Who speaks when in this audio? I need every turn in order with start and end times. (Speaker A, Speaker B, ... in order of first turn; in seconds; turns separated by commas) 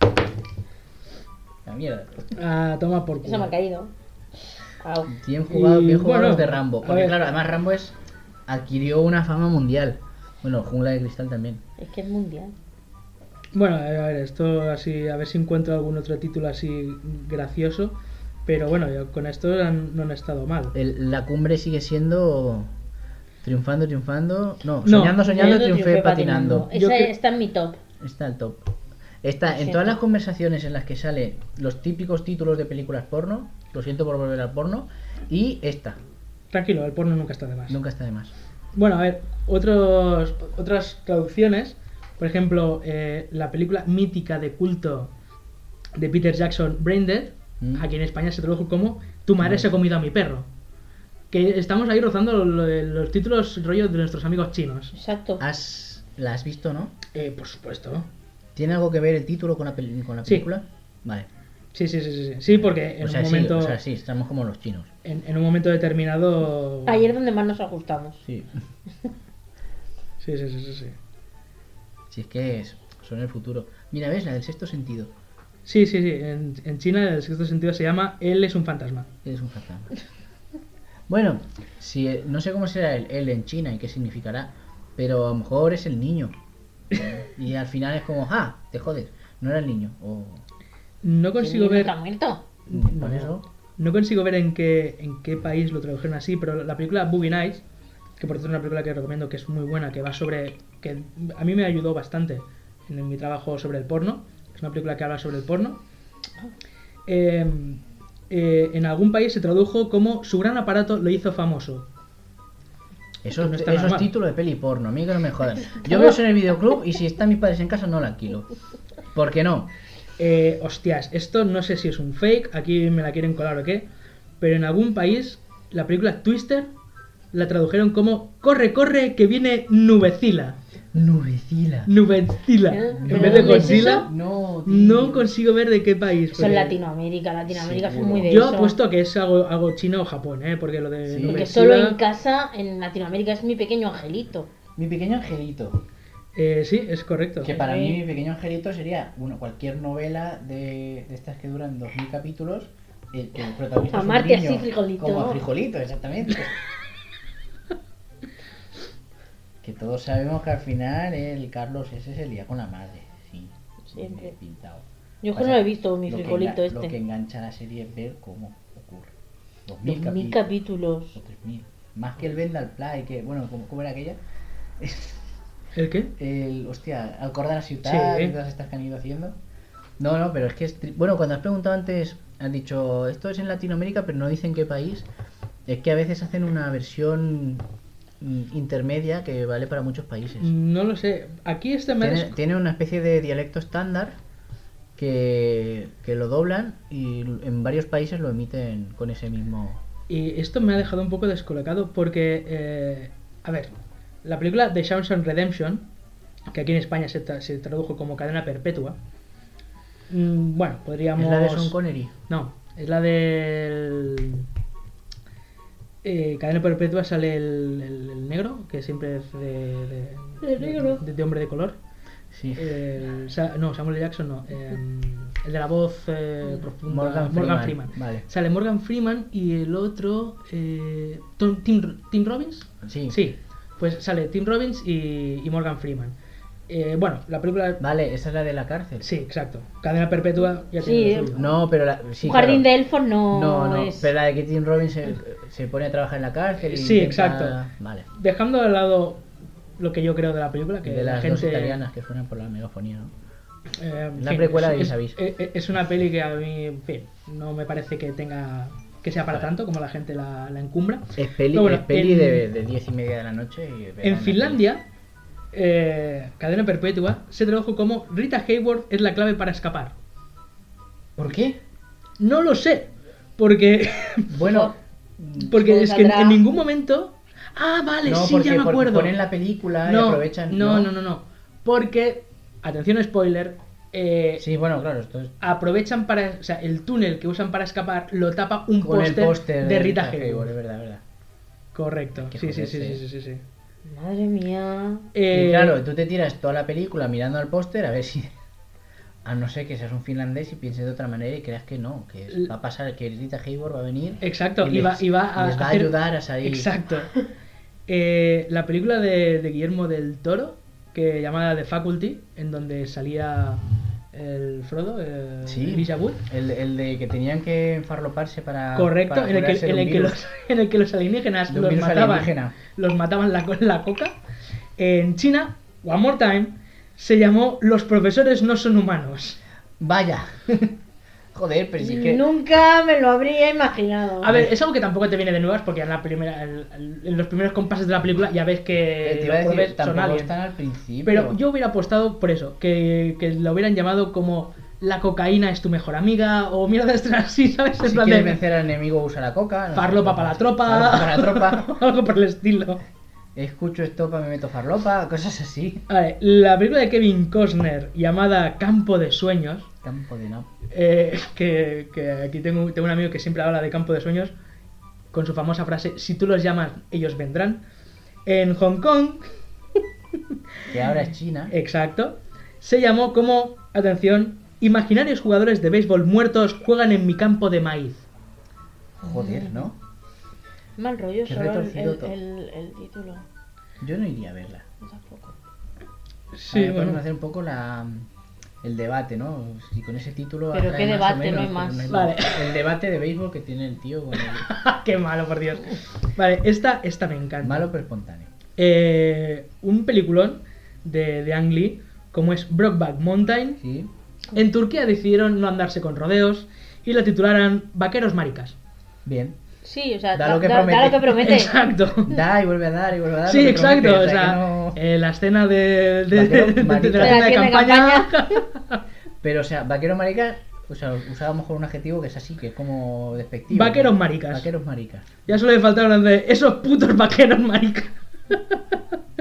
Speaker A: 1.6-2.3, Speaker B: 2.4-3.5, Speaker C: 3.2-3.9, Speaker C: 4.8-5.1, Speaker A: 5.1-8.0, Speaker B: 5.5-7.2, Speaker A: 8.5-11.6, Speaker C: 11.8-12.5, Speaker B: 13.5-20.8, Speaker A: 20.7-22.7, Speaker A: 23.4-26.7, Speaker B: 24.9-25.6, Speaker C: 25.2-27.8, Speaker B: 26.7-27.1, Speaker A: 28.0-28.6, Speaker A: 29.2-36.0, Speaker C: 29.5-29.9, Speaker B: 36.5-37.8, Speaker A: 37.7-38.3, Speaker B: 38.7-45.1, Speaker B: 46.0-50.5, Speaker A: 47.6-47.9, Speaker A: 49.4-49.7, Speaker B: 51.3-54.9, Speaker C: 54.9-55.4, Speaker A: 55.4-57.0, Speaker B: 57.1-58.1, Speaker A: 58.6-61.3, Speaker B: 61.7-63.8, Speaker A: 62.5-64.9, Speaker B: 65.0-67.1, Speaker C: 66.9-68.2, Speaker A: 68.3-68.5, Speaker B: 70.2-71.0, Speaker A: 72.1-75.1, Speaker B: 75.7-79.1, Speaker A: 79.2-79.9, Speaker A: 81.1-86.3, Speaker A: 86.9-90.4, Speaker B: 91.0-91.9, Speaker C: 91.4-92.5, Speaker B: 92.7-97.6, Speaker A: 92.7-93.4, Speaker B: 98.2-105.8, Speaker B: 107.1-111.9, Speaker A: 113.2-118.5, Speaker B: 113.4-114.1, Speaker A: 119.1-119.7, Speaker B: 120.2-123.9, Speaker B: 124.4-126.7, Speaker B: 127.3-130.6, Speaker A: 130.9-131.9, Speaker B: 131.9-134.1, Speaker C: 132.7-134.1, Speaker A: 133.0-135.3, Speaker B: 134.7-136.8, Speaker C: 136.3-138.8, Speaker A: 137.5-138.5, Speaker B: 138.3-142.0, Speaker A: 141.1-141.5, Speaker C: 141.3-144.5, Speaker A: 144.8-145.8, Speaker B: 146.4-147.5, Speaker A: 147.4-156.6, Speaker C: 147.4-148.0, Speaker C: 153.9-155.4, Speaker A: 159.6-169.1, Speaker C: 163.9-164.3, Speaker C: 165.2-166.9, Speaker A: 169.7-170.5, Speaker C: 169.8-171.2, Speaker A: 171.2-174.2, Speaker A: 174.8-175.2, Speaker B: 175.8-176.1, Speaker A: 176.2-179.4, Speaker B: 177.8-178.3, Speaker A: 180.0-185.1, Speaker A: 185.7-187.7, Speaker A: 188.2-190.5, Speaker B: 190.4-192.4, Speaker A: 192.0-194.2, Speaker A: 195.0-199.8, Speaker B: 200.1-203.7, Speaker B: 204.2-205.9, Speaker B: 206.5-209.0, Speaker B: 210.1-211.8, Speaker A: 211.2-212.1, Speaker B: 212.3-214.5, Speaker B: 216.0-221.8, Speaker C: 220.4-221.0, Speaker A: 222.3-222.8, Speaker B: 222.6-236.2, Speaker A: 226.9-228.3, Speaker A: 232.8-233.2, Speaker B: 236.7-237.8, Speaker A: 237.8-239.1, Speaker B: 239.0-241.5, Speaker C: 240.8-241.3, Speaker A: 241.3-242.7, Speaker C: 242.2-244.1, Speaker A: 243.3-248.1, Speaker B: 246.7-247.6, Speaker B: 248.2-249.2, Speaker B: 249.8-251.8, Speaker A: 250.8-253.1, Speaker B: 253.8-262.4, Speaker A: 254.2-255.2, Speaker A: 261.2-264.6, Speaker B: 264.0-264.8, Speaker B: 265.5-270.0, Speaker A: 271.2-271.6, Speaker B: 272.2-274.4, Speaker A: 274.3-275.5, Speaker C: 274.4-274.7, Speaker C: 275.4-276.4, Speaker B: 275.4-279.1, Speaker A: 278.1-280.9, Speaker B: 279.9-284.4, Speaker A: 284.4-285.3, Speaker B: 285.4-290.5, Speaker A: 288.8-291.0, Speaker B: 291.7-293.4, Speaker A: 292.2-293.0, Speaker C: 293.9-295.1, Speaker B: 295.1-295.8, Speaker A: 295.3-298.3, Speaker A: 299.2-306.7, Speaker B: 304.2-307.1, Speaker B: 307.9-313.6, Speaker B: 314.1-316.2, Speaker A: 315.5-320.2, Speaker B: 318.8-324.1, Speaker A: 321.5-322.5, Speaker B: 324.8-329.4, Speaker A: 329.8-330.7, Speaker A: 331.3-332.3, Speaker C: 331.8-334.4, Speaker B: 334.2-340.3, Speaker A: 339.0-341.4, Speaker B: 341.0-348.4, Speaker A: 347.8-351.8, Speaker B: 349.7-352.8, Speaker A: 353.4-355.8, Speaker B: 355.9-359.7, Speaker A: 359.8-360.5, Speaker B: 360.7-364.3, Speaker B: 365.1-367.6, Speaker B: 368.3-369.3, Speaker B: 370.3-370.8, Speaker A: 370.7-371.5, Speaker B: 371.5-378.0, Speaker A: 379.0-379.8, Speaker C: 379.0-379.7, Speaker C: 380.8-383.2, Speaker A: 381.3-382.1, Speaker A: 383.8-384.7, Speaker C: 384.8-385.4, Speaker B: 386.3-387.0, Speaker A: 386.5-388.1, Speaker A: 388.6-394.5, Speaker C: 390.5-391.9, Speaker B: 391.9-392.7, Speaker B: 394.2-397.7, Speaker A: 397.4-398.3, Speaker B: 398.6-403.6, Speaker A: 403.6-403.9, Speaker B: 404.3-408.6, Speaker A: 409.1-409.4, Speaker C: 409.6-411.6, Speaker A: 410.1-411.2, Speaker B: 411.2-412.2, Speaker A: 412.0-414.8, Speaker B: 413.3-418.8, Speaker A: 416.1-417.3, Speaker C: 417.0-418.4, Speaker A: 419.2-425.2, Speaker B: 423.5-424.5, Speaker B: 425.3-428.8